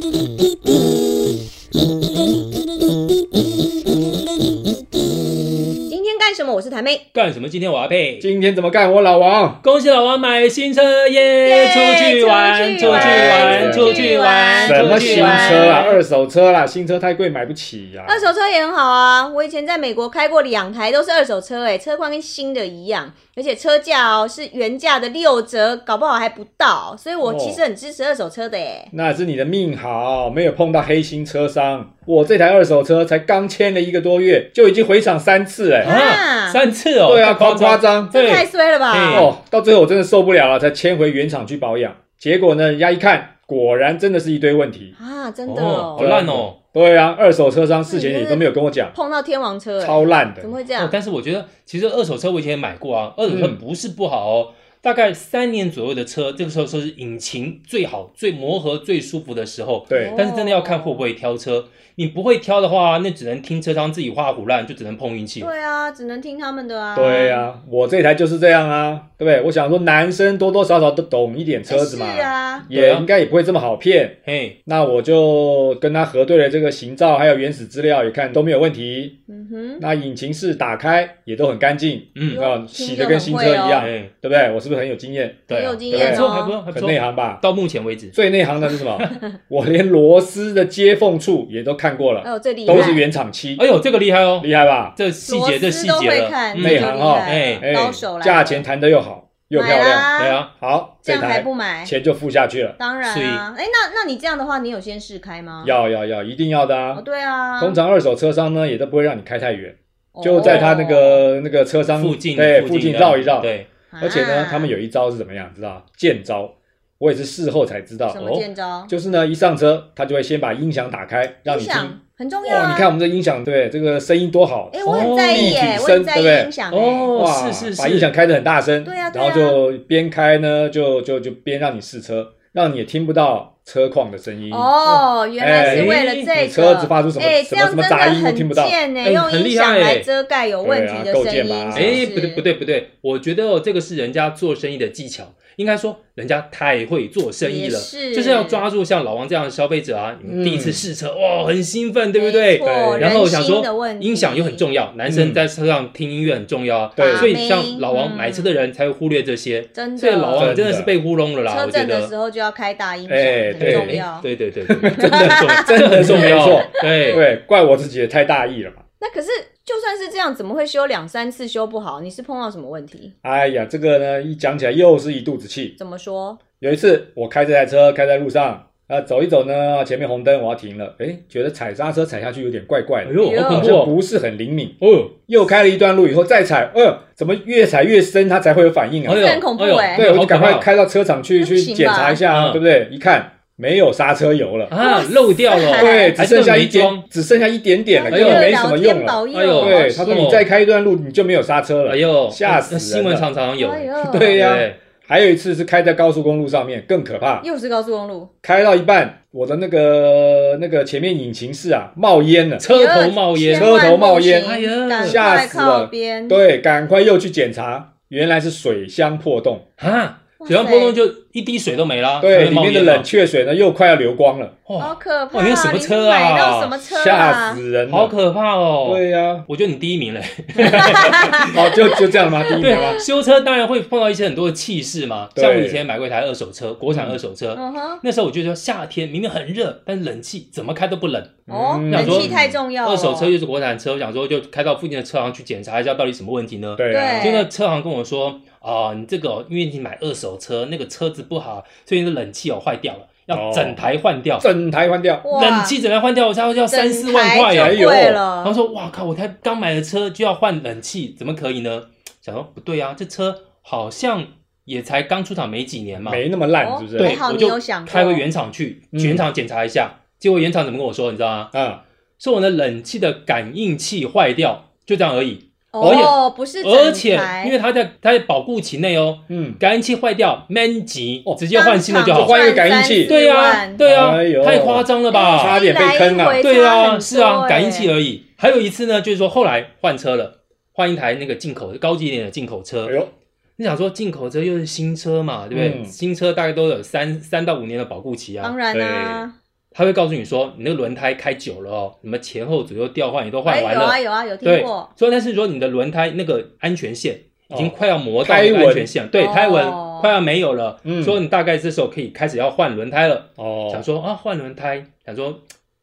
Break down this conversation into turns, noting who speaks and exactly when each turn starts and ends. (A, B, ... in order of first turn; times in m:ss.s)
0:05.9-0:07.0 A
0:07.1-0:08.3 B
0:08.2-0:09.6 C
0:09.6-0:16.0 B
0:11.4-0:15.8 A
0:12.8-0:14.0 C
0:14.6-0:18.3 C
0:18.1-0:28.9 A
0:27.2-0:27.6 C
0:28.9-0:35.9 C
0:35.8-0:36.6 A
0:35.8-0:39.3 B
0:37.0-0:38.2 C
0:38.1-0:39.3 A
0:39.1-0:45.0 C
0:45.0-0:46.1 A
0:45.5-0:46.6 B
0:46.0-0:49.0 C
0:47.9-0:51.0 A
0:49.8-0:50.6 C
0:50.8-1:05.5 B
0:53.3-0:53.6 C
0:59.9-1:00.2 C
0:59.9-1:01.1 A
1:05.4-1:07.5 A
1:07.0-1:19.2 C
1:11.7-1:12.7 A
1:12.6-1:13.1 B
1:14.2-1:14.6 B
1:19.3-1:19.8 A
1:19.8-1:27.4 C
1:22.2-1:22.4 B
1:22.3-1:23.9 A
1:23.8-1:24.1 B
1:25.5-1:26.6 A
1:25.5-1:28.2 B
1:28.1-1:33.6 C
1:28.7-1:29.1 B
1:32.2-1:33.0 A
1:32.7-1:33.0 B
1:33.6-1:37.6 B
1:34.4-1:35.0 C
1:35.2-1:38.6 A
1:36.6-1:42.8 C
1:39.5-1:40.4 A
1:40.2-1:40.5 B
1:41.0-1:41.9 A
1:42.8-1:45.8 A
1:43.0-1:43.4 B
1:45.6-1:47.0 C
1:46.9-1:47.8 A
1:47.6-1:58.2 C
1:50.2-1:51.3 A
1:51.9-1:53.7 B
1:53.9-1:54.7 A
1:58.1-1:58.9 A
1:58.2-1:58.5 B
1:58.9-2:06.5 C
2:01.5-2:03.0 A
2:04.7-2:07.2 A
2:04.9-2:05.7 B
2:06.7-2:08.1 B
2:07.1-2:14.7 C
2:08.8-2:09.6 A
2:14.5-2:22.5 A
2:15.4-2:18.8 C
2:15.6-2:16.3 B
2:19.0-2:20.1 B
2:20.6-2:22.0 C
2:21.7-2:42.1 B
2:27.4-2:28.6 A
2:30.2-2:30.9 C
2:32.2-2:34.6 A
2:32.6-2:33.2 C
2:35.1-2:35.4 C
2:37.0-2:37.4 C
2:37.0-2:38.5 A
2:39.7-2:40.6 A
2:40.4-2:40.9 C
2:41.5-2:44.3 A
2:43.1-2:44.0 C
2:43.6-2:47.2 B
2:44.7-2:48.8 C
2:45.0-2:47.2 A
2:49.0-2:53.1 A
2:53.2-2:55.8 C
2:55.8-2:56.4 A
2:56.6-3:04.8 C
3:03.0-3:04.0 B
3:03.2-3:03.7 A
3:04.8-3:05.1 B
3:05.3-3:09.3 C
3:09.1-3:10.7 B
3:09.1-3:10.0 A
3:10.0-3:14.7 C
3:11.4-3:12.2 A
3:12.3-3:12.6 B
3:14.7-3:17.0 B
3:14.8-3:16.2 A
3:15.8-3:23.3 C
3:17.9-3:20.2 A
3:18.1-3:18.5 B
3:19.3-3:20.5 B
3:21.8-3:24.8 B
3:23.6-3:24.4 A
3:24.0-3:27.4 C
3:27.4-3:28.3 A
3:28.4-3:32.7 C
3:32.6-3:33.7 B
3:32.6-3:36.4 A
3:33.4-3:39.6 C
3:34.4-3:35.2 B
3:39.8-3:43.1 B
3:40.4-3:41.0 A
3:42.2-3:44.6 C
3:44.7-3:46.8 B
3:44.8-3:47.6 A
3:46.8-3:48.1 C
3:47.8-3:52.0 B
3:48.8-3:49.5 C
3:50.7-3:53.1 A
3:50.7-3:53.0 C
3:52.6-4:14.5 B
3:55.4-3:55.8 C
3:56.9-3:57.2 C
3:57.6-3:58.0 A
4:01.5-4:02.6 C
4:01.5-4:03.3 A
4:06.8-4:07.4 C
4:06.9-4:07.5 A
4:13.3-4:13.8 C
4:14.4-4:15.3 C
4:15.2-4:15.8 A
4:15.3-4:26.2 B
4:16.7-4:18.6 A
4:17.5-4:18.2 C
4:26.0-4:27.2 C
4:26.6-4:28.3 A
4:27.0-4:31.5 B
4:28.9-4:29.2 C
4:31.5-4:31.8 C
4:32.2-4:42.4 B
4:35.7-4:37.6 A
4:35.8-4:36.1 C
4:39.3-4:39.6 C
4:41.5-4:43.8 A
4:42.1-4:43.2 C
4:43.0-4:45.6 B
4:43.8-4:46.5 C
4:45.1-4:47.9 A
4:46.4-4:53.0 B
4:52.8-4:53.1 C
4:53.6-4:58.6 B
4:55.5-4:55.9 C
4:58.4-4:59.3 A
4:58.7-4:59.3 C
4:59.7-5:15.4 B
5:03.4-5:04.9 A
5:07.5-5:08.9 C
5:09.1-5:10.1 A
5:10.8-5:11.2 C
5:13.4-5:13.8 C